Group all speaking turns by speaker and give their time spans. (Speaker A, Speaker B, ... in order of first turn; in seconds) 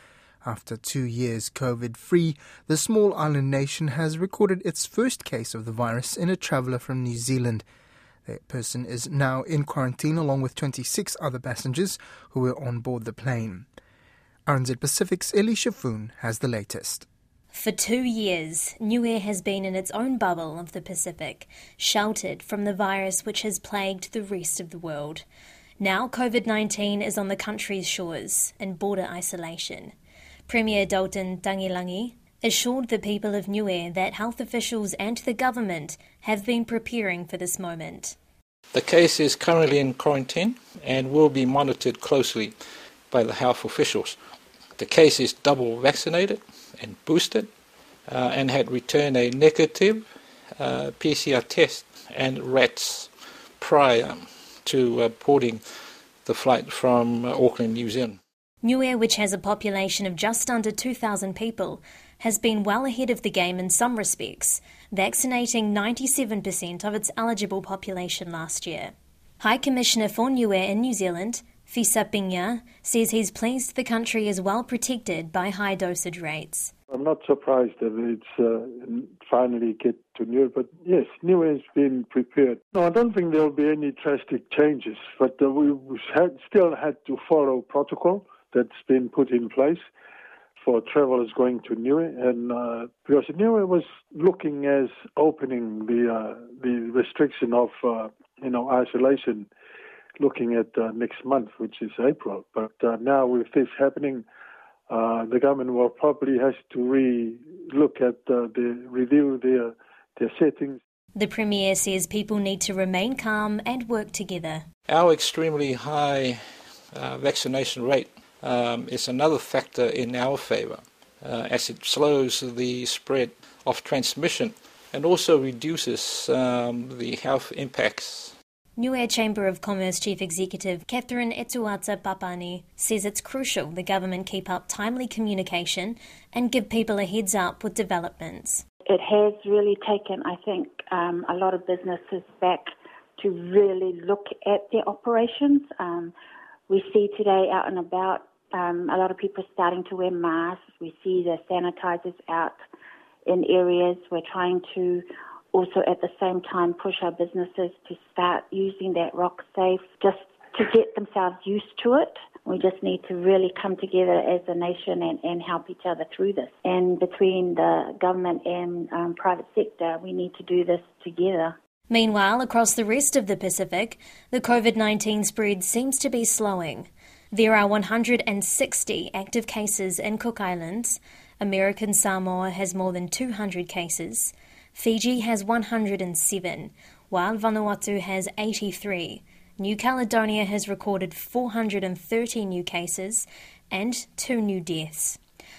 Speaker A: 0.4-7.7, 8.2-13.7, 14.5-17.1
Speaker B: 17.5-25.2, 25.8-29.9, 30.5-38.1, 58.6-76.7, 111.1-114.6, 128.8-138.6, 171.9-195.2
Speaker C: 38.7-42.5, 43.1-44.2, 44.8-47.5, 48.1-50.0, 50.6-55.6, 56.2-58.2, 114.9-116.4, 116.9-128.3
Speaker D: 76.9-89.8, 90.6-99.5, 100.2-104.2, 104.9-110.8
Speaker E: 138.9-146.1, 146.7-152.6, 153.2-171.5